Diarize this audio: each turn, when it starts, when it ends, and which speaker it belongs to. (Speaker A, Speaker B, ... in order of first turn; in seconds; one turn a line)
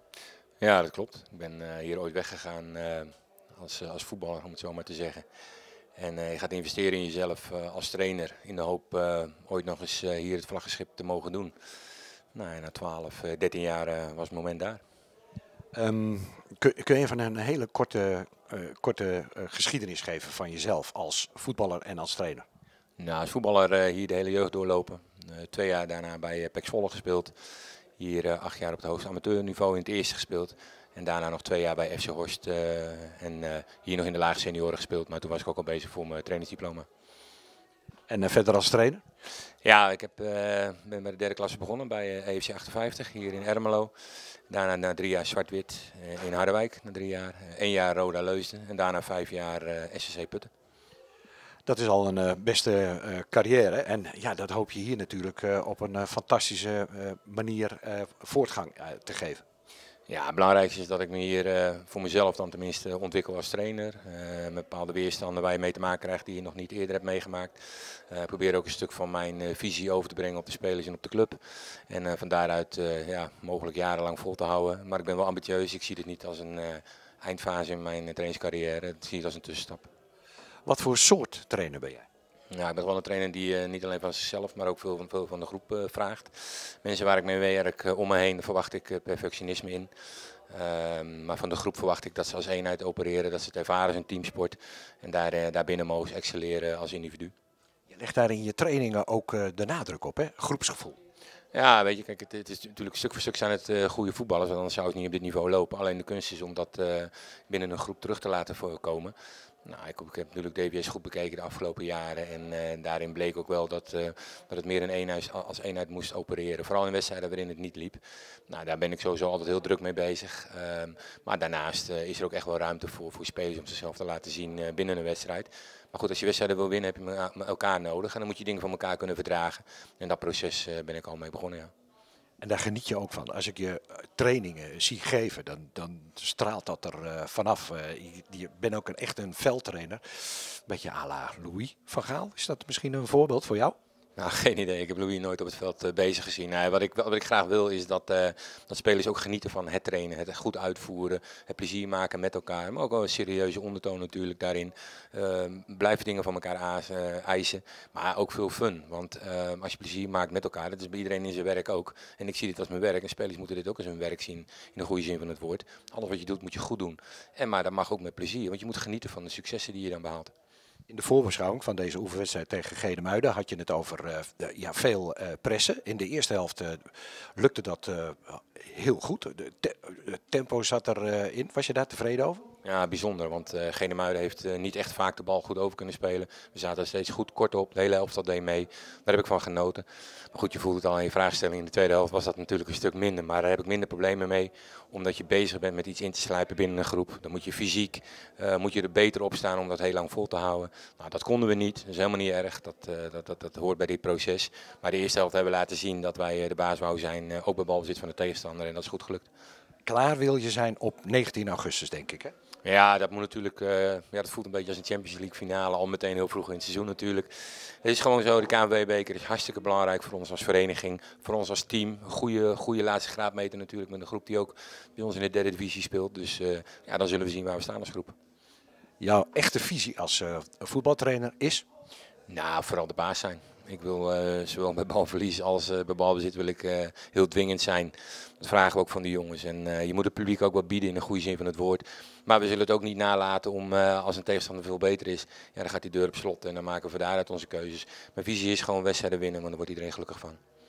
Speaker A: 0.6-5.2
Speaker A: 6.0-11.5
Speaker A: 12.3-14.8
Speaker B: 15.7-22.4
Speaker A: 23.0-27.3
Speaker A: 28.0-36.9
Speaker B: 38.1-39.0
Speaker A: 39.6-43.9
Speaker A: 44.5-50.5
Speaker B: 51.7-59.4
Speaker A: 60.1-79.9
Speaker B: 80.7-82.1
Speaker A: 82.5-89.9
Speaker A: 90.5-97.3
Speaker B: 97.9-101.0
Speaker A: 101.5-109.1
Speaker A: 109.7-131.7
Speaker B: 132.4-143.8
Speaker A: 144.2-170.3
Speaker B: 170.9-182.4
Speaker A: 182.6-209.3
Speaker B: 209.8-212.3
Speaker A: 212.6-228.1
Speaker B: 229.0-231.6
Speaker A: 232.3-250.4